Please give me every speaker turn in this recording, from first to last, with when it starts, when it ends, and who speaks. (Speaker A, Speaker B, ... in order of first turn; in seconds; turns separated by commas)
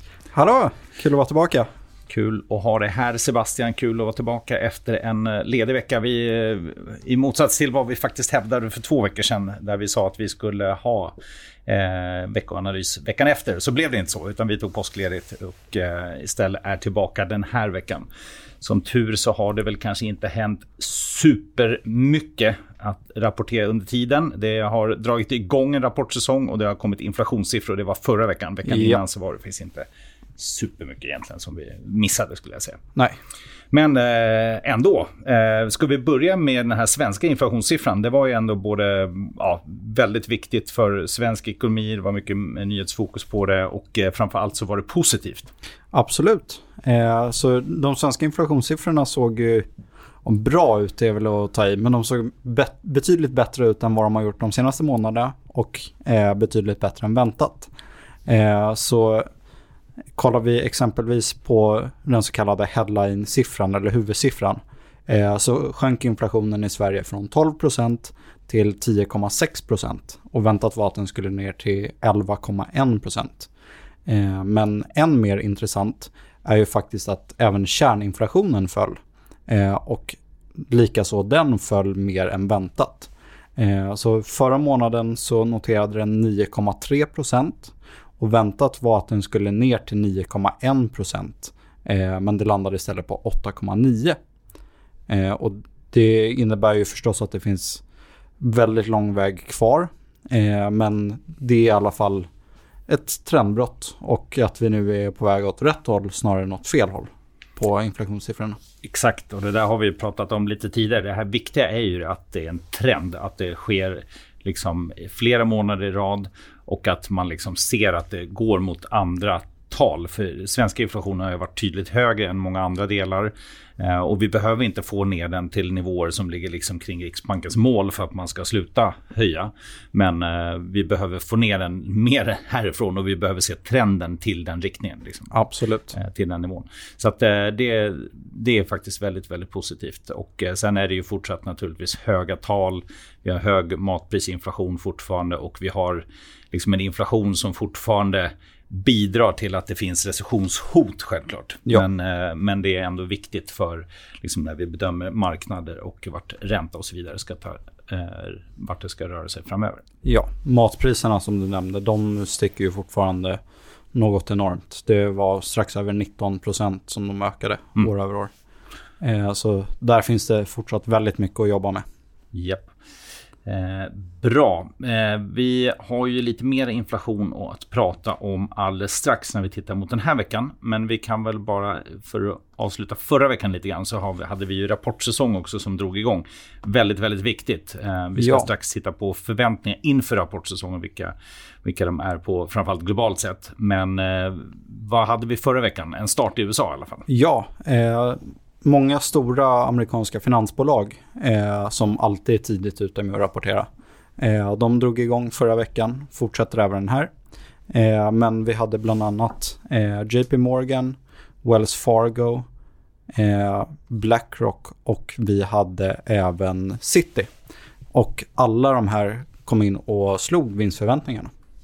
Speaker A: 0.3-1.7, Speaker B: 2.1-11.1, Speaker B: 11.7-18.1, Speaker B: 18.6-29.9, Speaker A: 28.7-29.0, Speaker B: 30.4-32.8, Speaker B: 33.7-45.5, Speaker A: 45.9-49.7, Speaker A: 50.2-57.7, Speaker A: 58.3-59.3, Speaker A: 60.2-73.5, Speaker A: 74.1-94.2, Speaker A: 95.1-97.8, Speaker A: 98.4-102.3, Speaker A: 102.9-108.6, Speaker B: 108.8-135.3, Speaker A: 135.3-135.9, Speaker B: 135.9-159.8, Speaker A: 160.0-163.4, Speaker A: 163.9-168.3, Speaker A: 169.0-171.8, Speaker B: 172.3-172.7, Speaker B: 173.4-191.1, Speaker A: 188.2-188.5, Speaker B: 191.6-197.1, Speaker A: 197.1-207.1, Speaker A: 207.7-212.4, Speaker A: 213.1-217.3, Speaker A: 217.9-221.3